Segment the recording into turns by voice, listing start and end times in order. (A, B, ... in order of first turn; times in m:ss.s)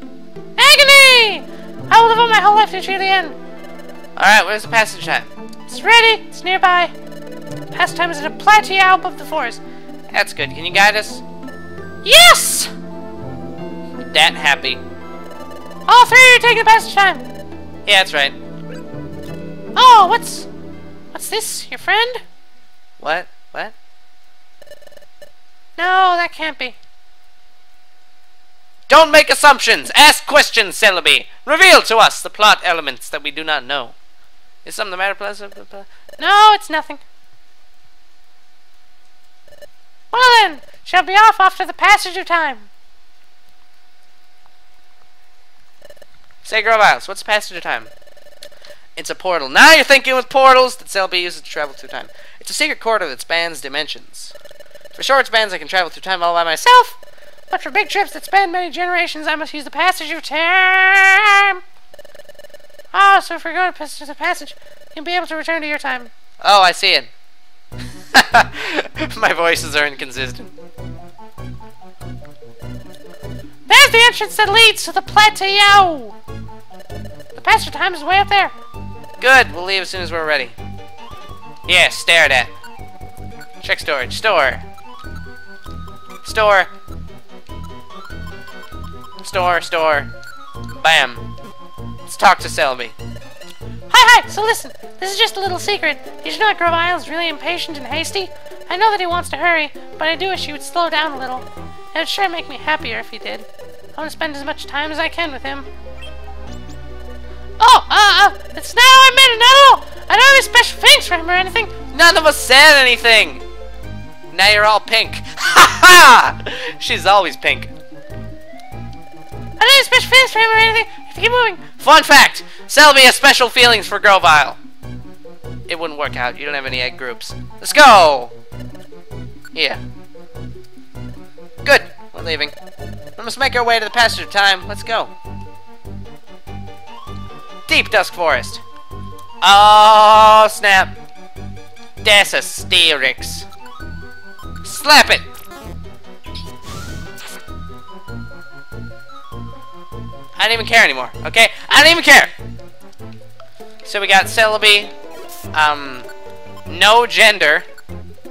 0:00.6-0:03.4 A
0:04.2-0:06.7 B
0:05.7-0:06.9 A
0:07.7-0:09.6 A
0:10.1-0:11.2 B
0:12.0-0:12.7 A
0:14.1-0:14.8 B
0:15.9-0:17.2 A
0:17.8-0:18.4 B
0:19.8-0:20.5 A
0:21.1-0:22.2 A
0:23.0-0:23.7 B
0:25.8-0:26.7 A
0:26.2-0:26.6 B
0:28.9-0:33.9 B
0:34.6-0:35.9 B
0:36.2-0:37.0 A
0:40.1-0:42.7 A
0:46.4-0:47.9 B
0:49.0-0:54.3 B
0:54.9-0:57.0 B
0:57.5-1:01.6 B
0:59.2-1:00.6 A
1:02.9-1:06.1 A
1:06.4-1:07.1 B
1:08.1-1:10.5 B
1:13.7-1:16.2 A
1:17.4-1:18.5 A
1:19.2-1:20.5 B
1:21.7-1:22.5 B
1:23.6-1:24.6 B
1:26.2-1:26.7 B
1:29.2-1:30.1 B
1:30.7-1:31.3 B
1:32.0-1:32.9 B
1:33.9-1:45.7 A
1:47.6-1:51.7 A
1:51.7-1:53.4 B
1:54.3-1:57.7 B
1:59.6-2:01.6 A
2:01.6-2:04.6 B
2:05.7-2:08.3 B
2:09.5-2:09.8 B
2:11.6-2:12.5 B
2:13.2-2:15.1 B
2:17.7-2:18.6 B
2:19.4-2:20.9 B
2:22.0-2:23.5 B
2:24.6-2:25.2 B
2:30.4-2:32.3 B
2:33.8-2:34.9 B
2:35.5-2:36.1 B
2:36.7-2:37.6 B